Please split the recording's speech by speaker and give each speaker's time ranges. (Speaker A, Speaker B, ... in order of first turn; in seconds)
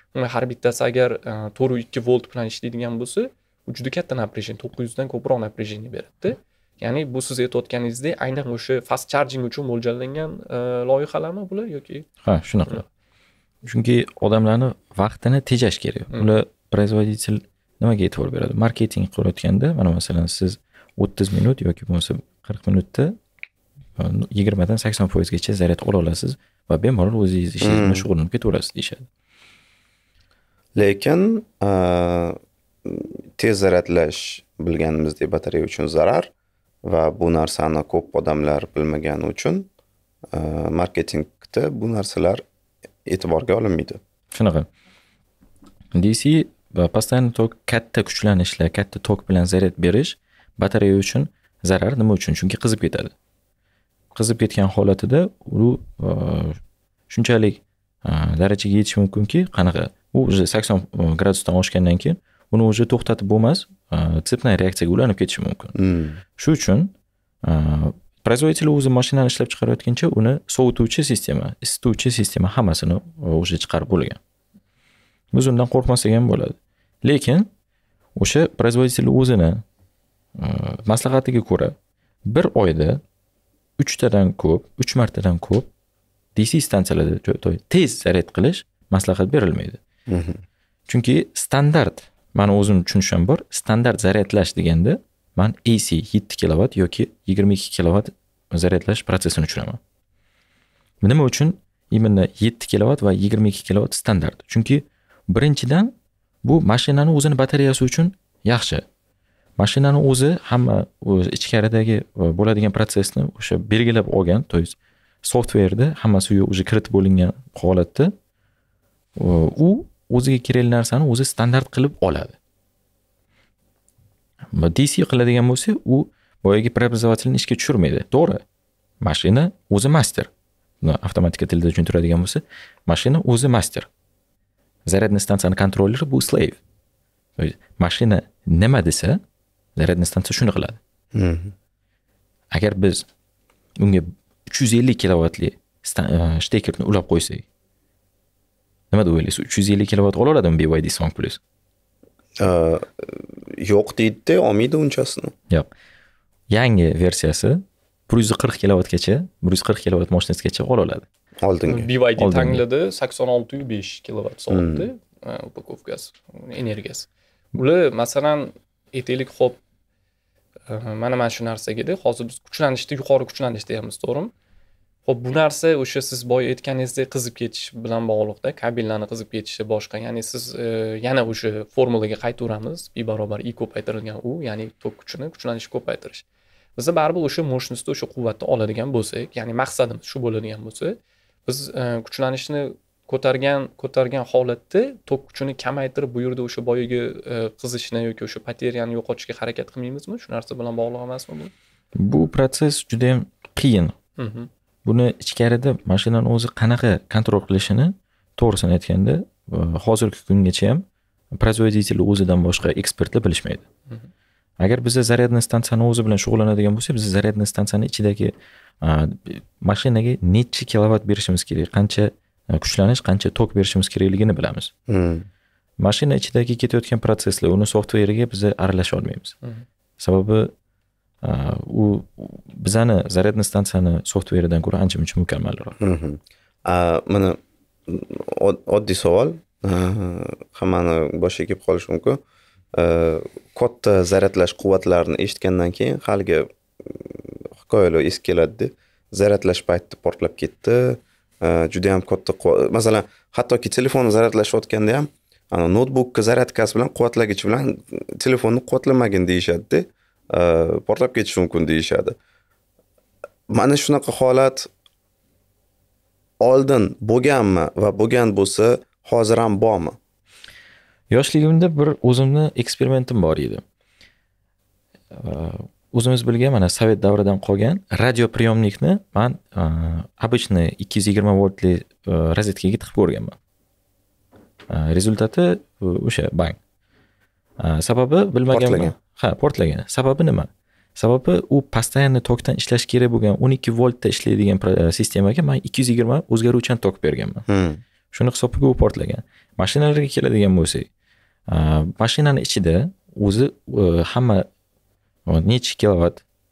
Speaker A: 0.1-12.1, 16.1-16.4, 161.7-169.6, 170.7-174.3, 175.1-186.2, 186.8-201.5, 204.2-204.5
Speaker B: 12.2-12.8, 13.6-23.1, 24.0-29.1, 44.3-44.7, 45.9-53.1, 54.1-56.6, 57.1-65.7, 66.4-66.9, 67.4-74.2, 75.3-77.5, 78.2-79.6, 80.3-81.7, 82.2-83.0, 83.8-85.7, 86.3-89.8, 90.9-99.8, 101.0-108.8, 109.6-118.1, 119.2-122.3, 124.5-128.4, 129.0-130.3, 130.8-133.9, 134.9-136.6, 137.4-139.2, 139.8-140.8, 142.5-143.1, 143.8-147.4, 148.9-151.4, 156.5-161.0, 162.2-162.6, 201.9-203.9, 204.8-213.7, 214.6-224.7, 225.8-229.3, 230.0-230.5, 231.2-235.8, 271.1-273.6, 275.1-283.4, 284.7-286.6, 287.6-297.4, 298.1-300.9, 301.5-304.5, 305.3-306.2
Speaker C: 27.6-28.1, 30.8-36.3, 36.8-39.7, 40.3-42.4, 43.0-44.0, 65.8-66.2, 90.1-90.4, 141.1-141.5, 152.4-155.3, 161.4-161.9, 164.5-164.9, 224.9-225.3, 235.8-242.2, 242.7-262.1, 263.5-264.7, 266.4-270.0, 288.5-288.9, 297.5-297.8